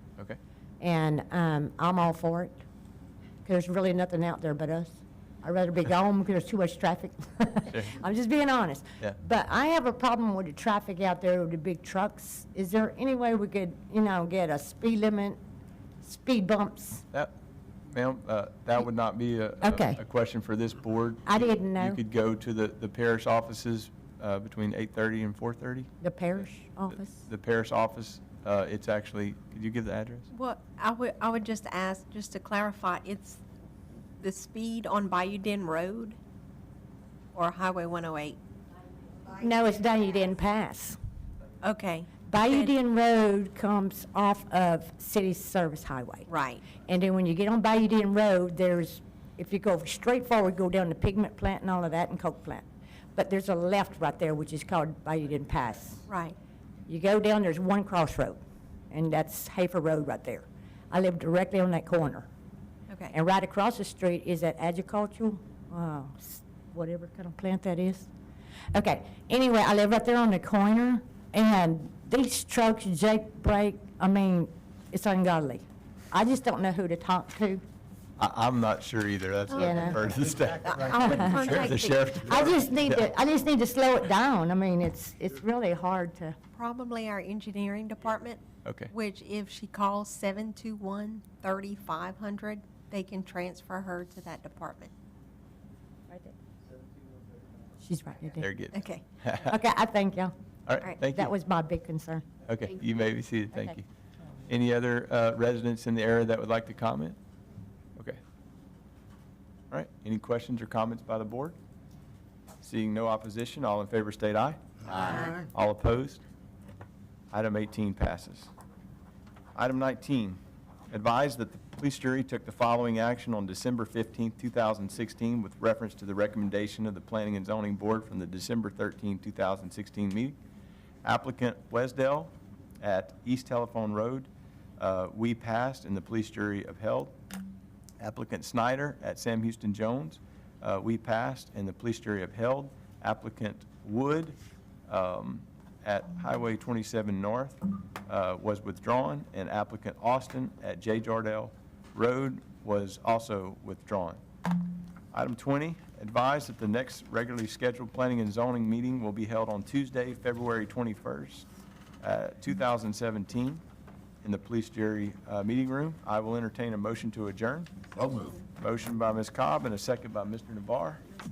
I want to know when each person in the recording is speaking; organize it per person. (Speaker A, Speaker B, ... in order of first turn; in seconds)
Speaker A: 0.8-2.5, 3.4-15.4, 16.0-17.0, 19.6-20.0, 21.2-22.0, 26.0-27.2, 39.3-41.0, 42.3-56.0, 56.9-62.3, 63.1-68.1, 68.7-77.6, 79.5-80.2, 80.7-86.3, 96.1-96.3, 97.8-98.5, 99.4-100.3, 101.0-102.2
Speaker B: 7.7-8.0, 17.9-25.9, 27.1-30.3, 78.2-83.1, 88.6-88.9, 98.4-99.6, 100.7-101.3, 102.4-103.8, 104.4-107.2, 109.7-111.5, 112.6-116.2, 117.3-118.5, 119.5-120.4, 120.9-130.3, 131.0-137.1, 138.0-144.4, 144.9-154.2, 155.1-161.5, 162.0-163.6, 164.2-167.7, 168.2-171.0
Speaker C: 30.3-33.4, 34.2-36.2, 37.3-38.4, 41.6-42.7, 46.3-46.6, 56.1-56.4, 80.6-82.0, 86.5-94.9, 98.7-99.0